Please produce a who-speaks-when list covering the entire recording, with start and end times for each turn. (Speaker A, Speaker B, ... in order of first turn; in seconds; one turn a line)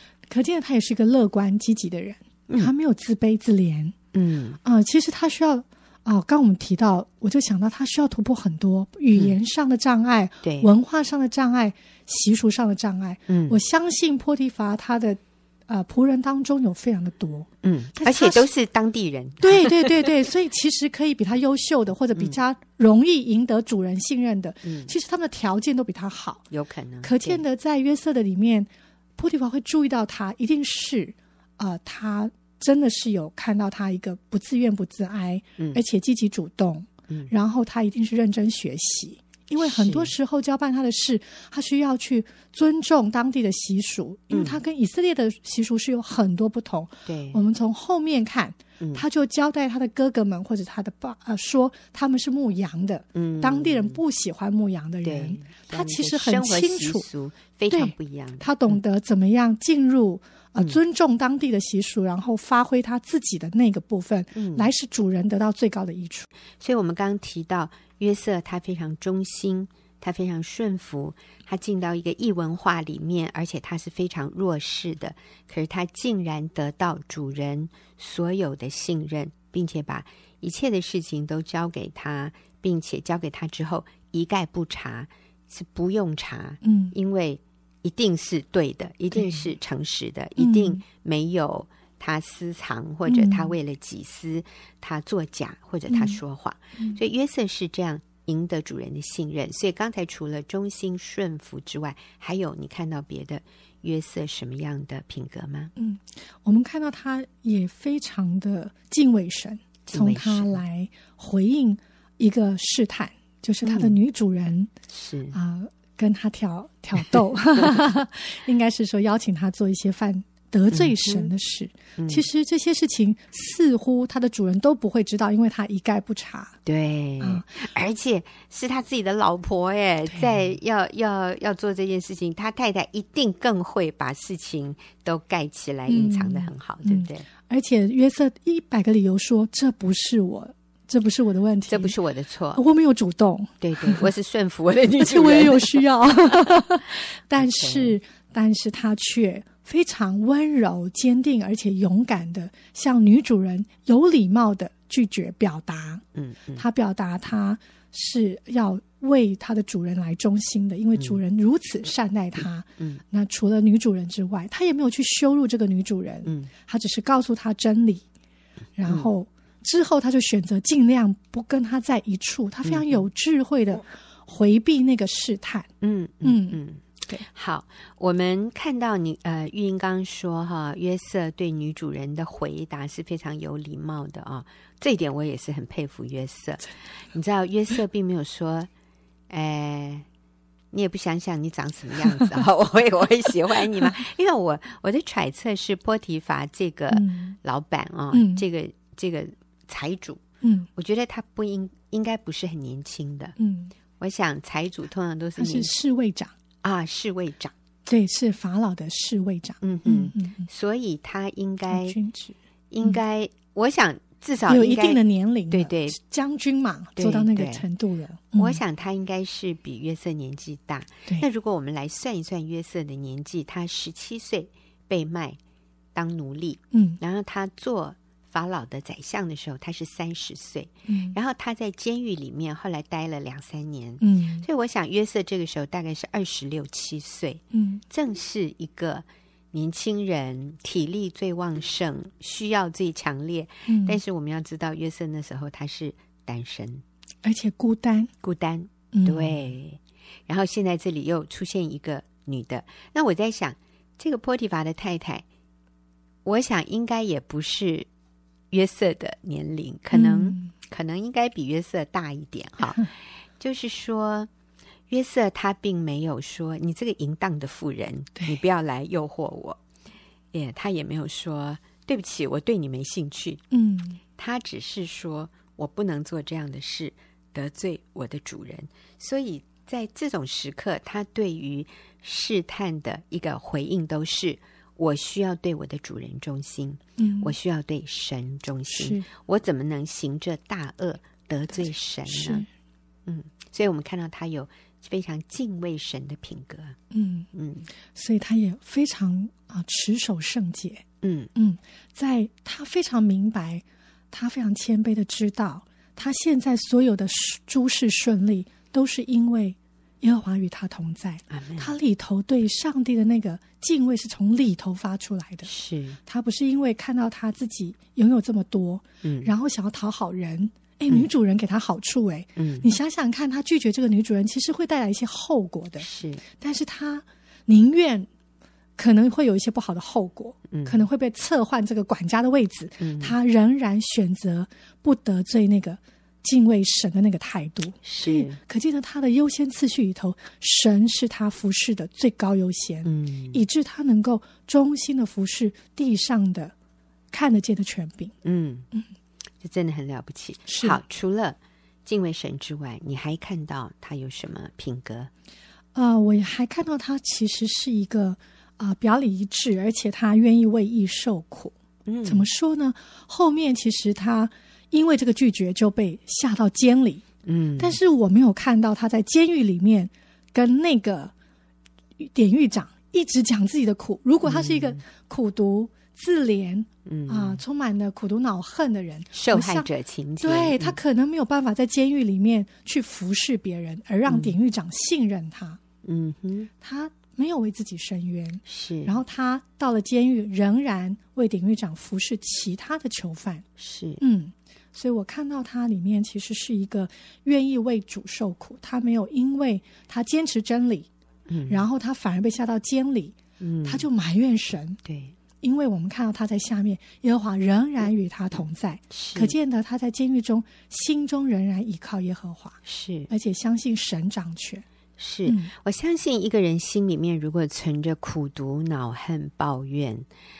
Speaker A: 0.3-3.9
Speaker B: 4.1-4.6
Speaker A: 4.6-18.5
Speaker B: 10.4-10.7
Speaker B: 13.3-13.6
Speaker B: 17.6-19.9
Speaker A: 19.4-26.5
Speaker B: 24.6-24.9
Speaker B: 26.5-27.4
Speaker A: 27.0-57.0
Speaker B: 39.6-40.1
Speaker B: 44.3-44.6
Speaker B: 47.0-47.4
Speaker B: 53.1-54.0
Speaker B: 55.0-58.8
Speaker A: 57.7-66.3
Speaker B: 64.3-64.7
Speaker B: 66.6-105.7
Speaker A: 86.6-86.9
Speaker A: 89.1-89.4
Speaker A: 90.4-90.8
Speaker A: 93.1-93.5
Speaker A: 95.9-96.2
Speaker A: 105.8-114.7
Speaker B: 109.8-110.6
Speaker B: 113.6-113.9
Speaker B: 114.9-115.3
Speaker A: 115.3-126.6
Speaker B: 120.7-121.3
Speaker B: 122.0-122.2
Speaker B: 126.7-137.3
Speaker A: 127.2-127.5
Speaker A: 130.1-130.4
Speaker A: 135.9-141.9
Speaker B: 141.7-142.6
Speaker A: 142.5-144.1
Speaker B: 143.6-145.8
Speaker A: 145.0-156.0
Speaker B: 147.3-147.9
Speaker B: 156.1-156.6
Speaker A: 156.6-168.0
Speaker B: 166.2-166.5
Speaker A: 168.8-175.7
Speaker B: 172.6-173.0
Speaker B: 175.8-188.7
Speaker A: 176.2-177.2
Speaker B: 189.3-190.1
Speaker B: 190.7-200.2
Speaker A: 196.9-197.3
Speaker A: 198.1-198.4
Speaker A: 200.4-200.7
Speaker B: 200.8-203.3
Speaker A: 203.4-203.7
Speaker B: 204.0-205.7
Speaker A: 205.4-206.3
Speaker B: 206.6-207.5
Speaker A: 207.8-210.5
Speaker B: 209.6-212.0
Speaker A: 211.7-213.0
Speaker B: 212.7-216.0
Speaker A: 214.5-218.6
Speaker B: 216.9-217.6
Speaker B: 218.3-225.4
Speaker B: 225.9-246.8
Speaker A: 226.7-227.0
Speaker A: 230.9-231.2
Speaker A: 234.0-234.4
Speaker A: 237.5-237.8
Speaker A: 243.7-244.0
Speaker A: 247.2-248.1
Speaker B: 248.2-255.2
Speaker A: 248.9-249.4
Speaker B: 256.2-257.9
Speaker B: 258.5-264.3
Speaker A: 259.9-260.5
Speaker B: 264.9-269.6
Speaker B: 270.3-273.4
Speaker A: 273.5-274.0
Speaker B: 274.2-292.4
Speaker A: 287.0-287.3
Speaker A: 288.7-289.1
Speaker A: 292.1-292.5
Speaker B: 293.1-296.8
Speaker A: 296.9-297.3
Speaker B: 297.3-297.7
Speaker A: 297.9-315.5
Speaker B: 301.0-301.3
Speaker B: 311.3-311.7
Speaker B: 315.4-316.0
Speaker A: 316.1-328.1
Speaker B: 319.0-319.3
Speaker B: 322.4-322.7
Speaker B: 325.8-326.2
Speaker A: 328.8-346.5
Speaker B: 330.5-330.9
Speaker B: 332.8-333.1
Speaker B: 337.8-338.4
Speaker B: 342.8-343.4
Speaker A: 347.1-348.1
Speaker B: 348.2-348.7
Speaker B: 349.4-355.1
Speaker A: 350.5-350.8
Speaker A: 355.7-361.5
Speaker B: 361.9-362.3
Speaker A: 362.0-367.0
Speaker B: 367.2-367.8
Speaker A: 367.6-371.1
Speaker A: 372.0-379.7
Speaker B: 374.2-374.8
Speaker B: 376.9-377.4
Speaker B: 379.1-380.8
Speaker A: 380.2-385.6
Speaker B: 384.1-384.3
Speaker B: 385.8-386.5
Speaker A: 386.6-393.4
Speaker B: 388.5-388.9
Speaker B: 393.6-394.0
Speaker A: 394.0-400.9
Speaker B: 401.3-401.6
Speaker A: 401.5-404.8
Speaker B: 403.4-403.9
Speaker B: 404.8-405.1
Speaker A: 405.4-414.6
Speaker B: 408.9-409.3
Speaker B: 412.6-413.1
Speaker B: 415.0-420.1
Speaker A: 415.2-415.5